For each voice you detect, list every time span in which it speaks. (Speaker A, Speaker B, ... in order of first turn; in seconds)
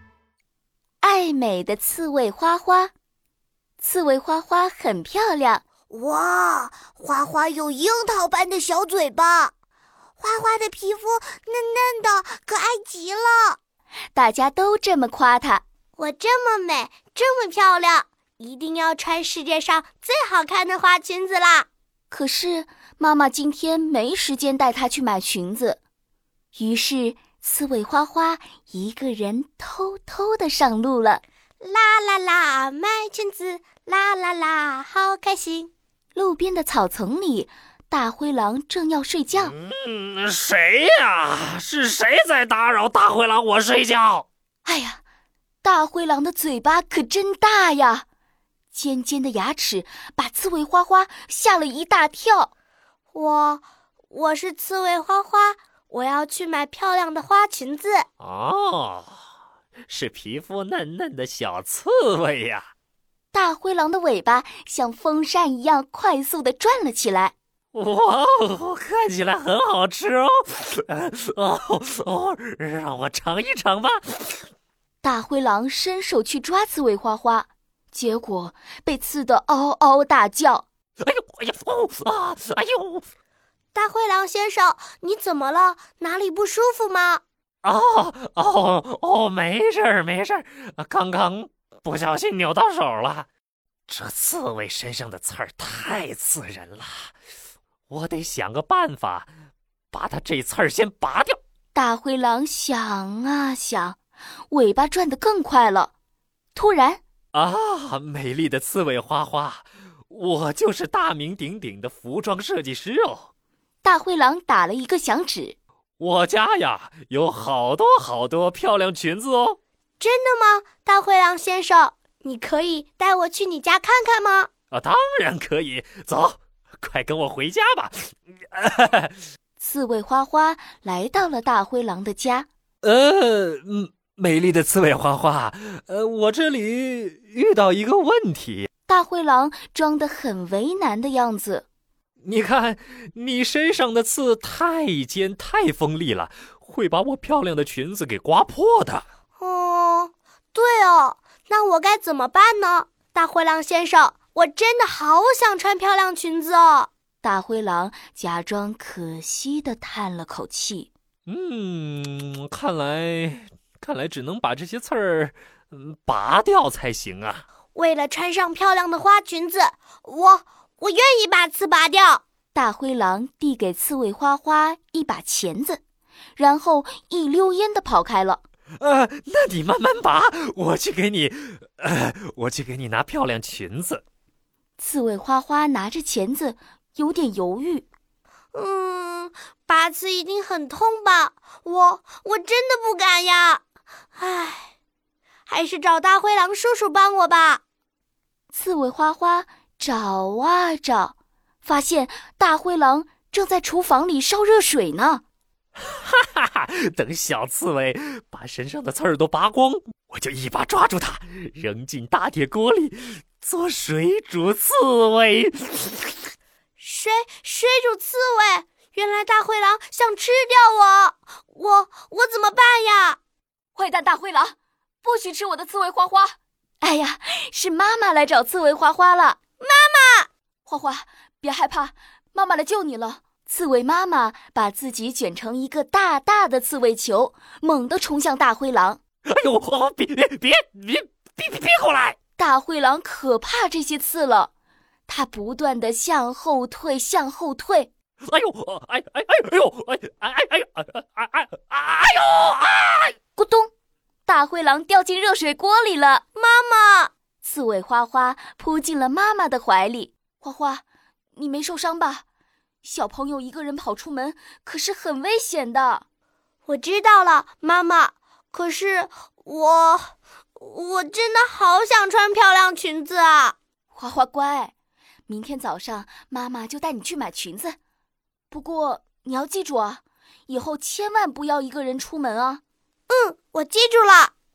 Speaker A: 1.0-2.9, 3.8-5.6, 14.1-15.6, 22.1-25.8, 26.6-31.2, 36.1-39.5, 44.6-45.0, 45.6-48.0, 48.7-52.5, 63.3-67.3, 75.0-80.7, 101.7-104.0, 104.5-105.9, 106.5-107.0, 113.8-115.6, 129.6-132.5, 138.9-141.7, 157.2-160.9, 172.5-175.8, 176.4-178.4, 184.8-187.9, 198.5-205.2, 223.8-229.4, 230.7-239.0, 242.4-244.5, 245.1-247.9, 253.4-253.7, 254.3-256.2, 257.4-260.8, 261.4-262.2, 262.8-266.1, 273.9-274.7, 275.3-277.8, 278.5-282.6
Speaker B: 5.9-9.5, 10.2-13.6, 16.0-21.7, 31.6-35.7, 53.1-58.1, 83.7-87.2, 120.0-124.5, 149.4-156.9, 167.8-172.2, 188.5-193.6, 194.2-194.7, 195.5-197.6, 216.8-223.2, 229.6-230.3, 256.4-257.1, 266.7-273.6, 283.1-284.3
Speaker C: 39.4-44.3, 58.2-59.1, 59.9-62.7, 67.7-74.4, 81.0-83.1, 87.6-93.3, 93.9-97.1, 97.9-99.3, 99.9-101.4, 107.3-113.3, 116.0-119.6, 124.7-129.1, 132.8-138.7, 142.2-149.0, 161.3-167.4, 178.8-184.0, 205.8-216.2, 239.3-242.2, 248.3-253.2